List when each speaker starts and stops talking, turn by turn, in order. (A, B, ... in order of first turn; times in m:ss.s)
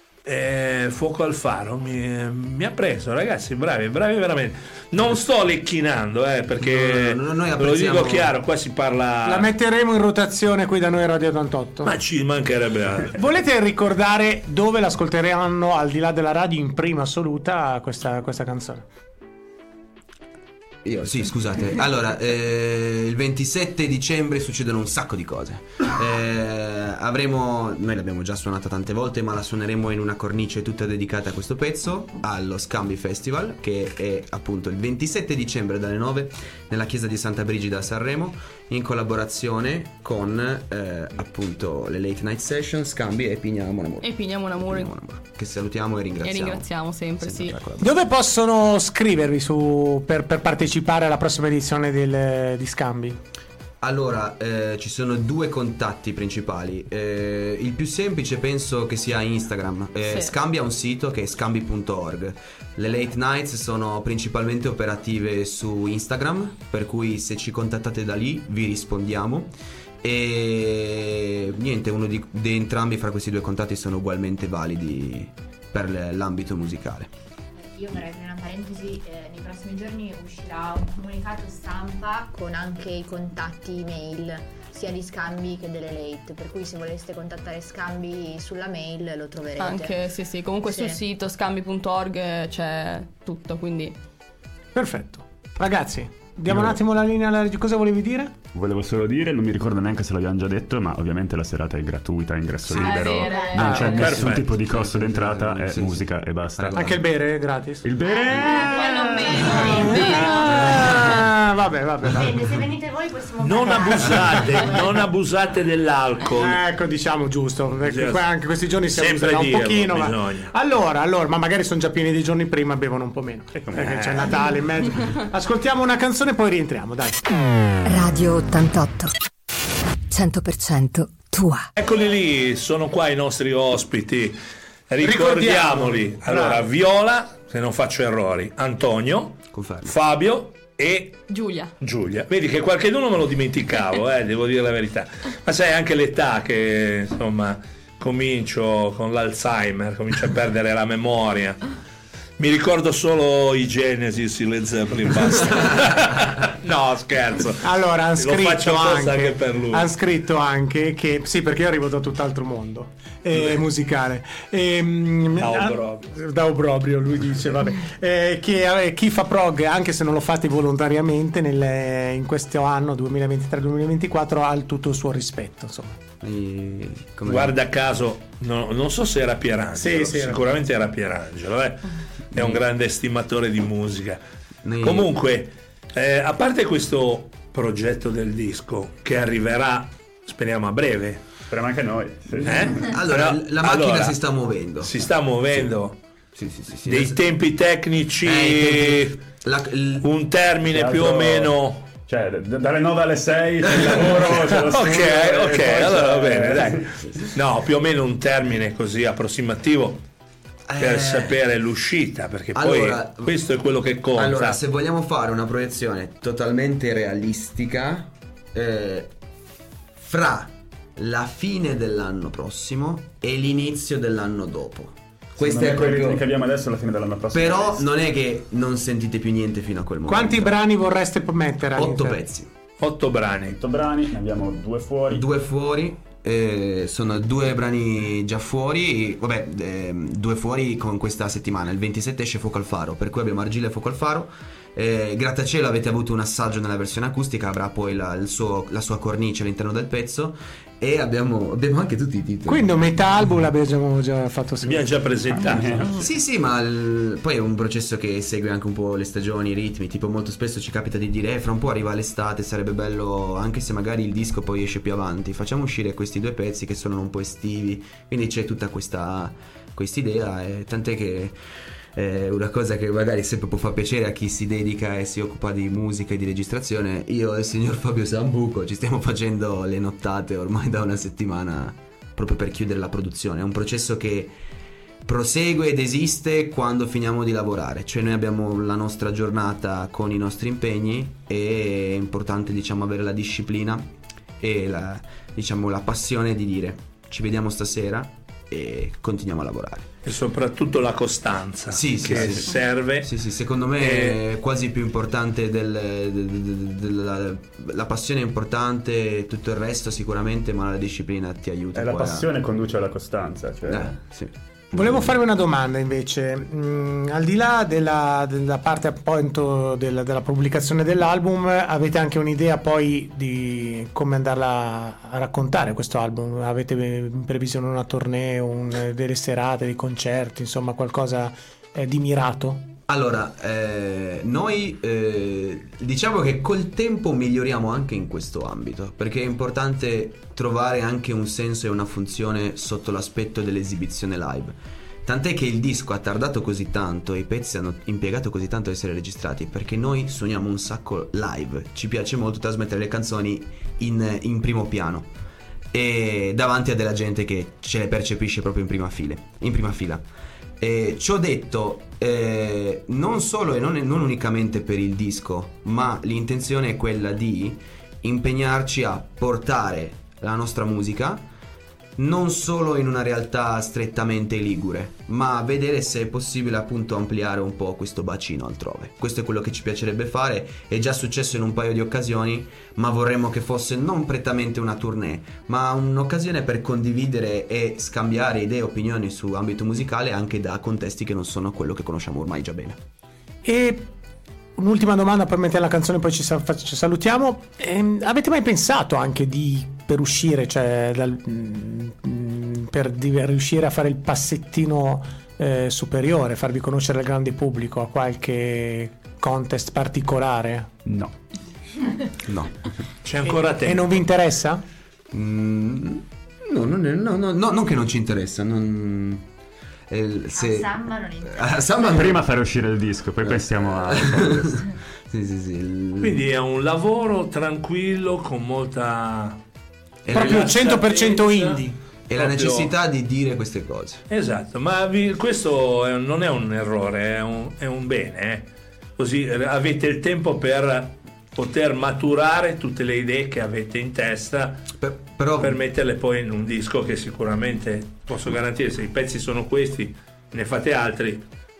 0:00.2-0:09.5 A
0:06.6-0:08.3 B
0:09.2-0:11.9 C
0:11.8-0:13.3 A
0:13.1-0:18.8 C
0:20.8-0:47.9 B
0:44.0-0:44.9 D
0:46.2-0:47.6 D
0:47.8-0:53.2 C
0:53.8-1:17.1 B
1:00.0-1:00.3 D
1:17.6-1:30.0 E
1:29.6-1:33.9 D
1:30.6-1:31.0 E
1:34.7-1:38.3 C
1:36.5-1:36.8 F
1:38.5-1:47.0 F
1:42.7-1:44.1 D
1:42.7-1:44.0 E
1:43.6-1:44.0 C
1:43.7-1:44.5 A
1:44.0-1:47.0 B
1:46.7-1:52.4 C
1:47.8-1:48.6 F
1:48.0-1:51.1 E
1:49.8-1:50.5 D
1:52.1-1:55.0 E
1:53.4-1:56.6 A
1:53.7-1:54.4 C
1:56.3-2:07.3 C
1:57.8-1:58.3 A
1:58.9-2:00.5 A
2:03.6-2:04.0 F
2:03.7-2:04.5 A
2:07.8-2:09.1 G
2:10.1-2:11.7 G
2:11.8-2:21.2 A
2:15.0-2:16.7 C
2:19.5-2:19.9 B
2:21.3-2:21.7 D
2:21.8-2:31.7 A
2:32.4-2:39.9 A
2:37.6-2:56.0 C
2:45.4-2:46.1 A
2:56.2-2:57.6 B
2:57.2-3:04.2 A
2:59.7-3:00.4 C
3:02.3-3:02.6 B
3:04.6-3:05.1 B
3:04.8-3:11.2 A
3:11.5-3:12.8 F
3:12.4-3:14.2 A
3:12.8-3:14.9 B
3:14.8-3:16.0 A
3:16.3-3:17.2 B
3:16.8-3:19.2 A
3:18.2-3:20.1 B
3:20.0-3:21.8 A
3:20.7-3:27.3 F
3:24.6-3:30.0 A
3:30.7-3:31.4 B
3:30.8-3:34.6 A
3:32.5-3:33.4 B
3:34.1-3:39.1 B
3:40.0-3:46.2 B
3:45.4-3:47.8 F
3:47.3-3:50.6 B
3:50.0-3:52.2 C
3:51.8-3:52.5 B
3:52.8-3:53.6 A
3:53.5-3:55.2 F
3:55.1-4:12.8 B
4:12.5-4:15.7 C
4:14.6-4:16.0 A
4:15.3-4:16.0 F
4:16.0-4:31.3 B
4:31.9-4:44.3 B
4:45.0-4:53.9 B
4:54.4-4:59.9 B
5:00.0-5:03.1 A
5:01.7-5:12.3 B
5:03.8-5:04.2 A
5:11.7-5:13.9 F
5:13.7-5:15.1 B
5:14.7-5:32.7 C
5:32.9-5:55.1 B
5:55.7-6:00.0 B
6:00.6-6:11.2 B
6:12.0-6:32.8 B
6:33.4-6:33.9 C
6:34.6-6:50.7 C
6:50.8-6:51.1 F
6:52.2-6:52.5 B
6:53.0-6:54.1 A
6:53.2-6:54.6 C
6:55.1-6:59.2 B
6:59.9-7:02.2 B
7:00.3-7:02.0 E
7:01.9-7:04.6 F
7:03.2-7:06.2 B
7:06.0-7:09.4 A
7:10.0-7:10.7 B
7:10.1-7:11.8 C
7:10.1-7:12.7 A
7:12.1-7:14.0 B
7:14.1-7:24.6 A
7:24.8-7:25.6 B
7:25.4-7:31.2 A